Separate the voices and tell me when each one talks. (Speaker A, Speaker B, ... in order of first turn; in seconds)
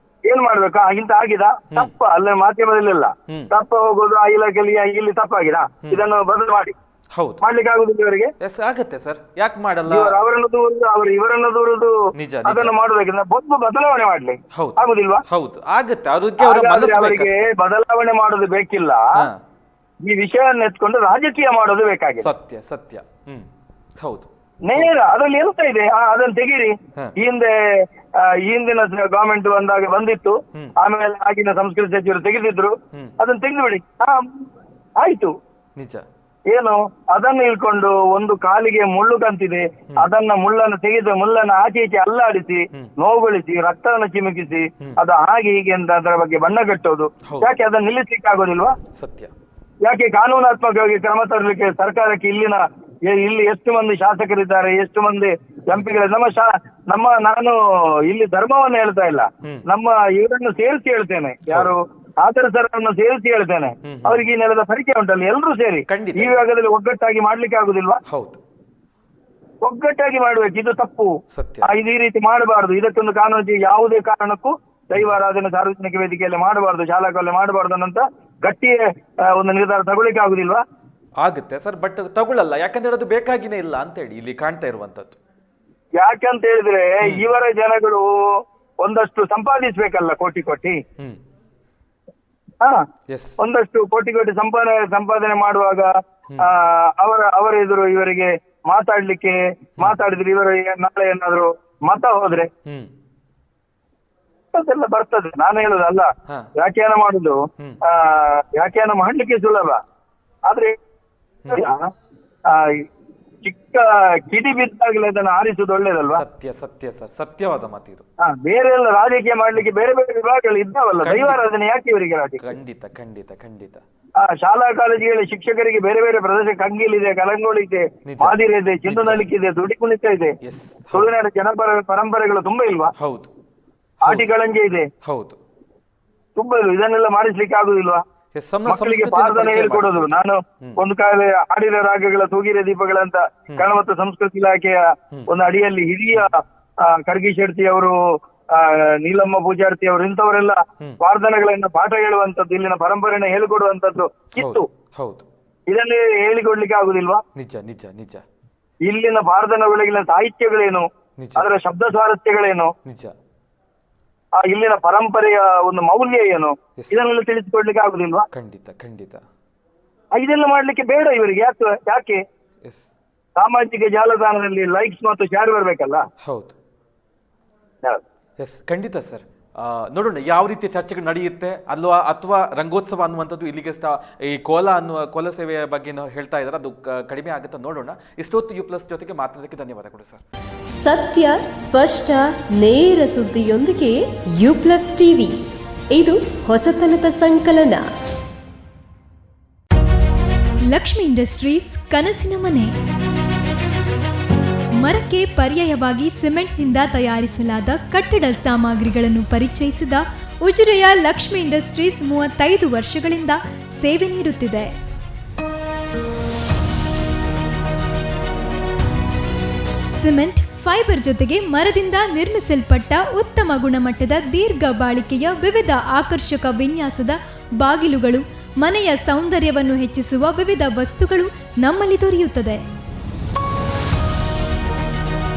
Speaker A: 0.2-6.7, 7.4-8.3, 9.9-11.9, 12.4-15.2, 16.4-19.0, 20.0-22.3, 24.6-27.5, 28.2-34.4, 35.0-35.3, 36.5-48.8, 49.9-68.0, 69.6-71.1, 71.6-78.8, 79.3-80.6, 86.0-88.0, 88.8-90.8, 93.4-102.5, 104.5-109.8, 110.5-110.7, 111.5-111.9, 112.5-112.8, 113.4-116.2, 118.2-122.4, 124.2-130.3, 130.9-132.9, 134.0-134.9, 136.3-138.0, 138.6-147.9, 148.5-154.7, 155.7-157.2, 158.9-162.7, 164.4-168.3, 170.1-172.2, 173.4-176.0
Speaker B: 7.1-7.4, 8.4-10.2, 12.1-12.8, 14.5-17.5, 22.2-23.5, 24.0-24.9, 35.8-36.0, 47.2-47.6, 48.9-49.3, 55.7-56.0, 61.5-61.8, 63.8-64.2, 65.9-66.5, 68.1-68.4, 71.3-71.7, 81.2-85.2, 93.1-93.4, 102.7-102.9, 116.1-118.0, 121.0-121.5, 122.4-123.8, 128.1-129.3, 130.4-131.2, 132.9-133.3, 134.0-134.3, 135.0-135.4, 138.3-140.8, 154.3-155.2, 157.3-158.2, 161.2-161.5, 162.8-163.1, 166.8-167.1, 168.3-169.2, 172.6-172.9, 176.2-176.6, 178.4-190.2
Speaker C: 190.7-197.9
Speaker D: 200.7-202.7, 204.8-214.7, 220.0-232.6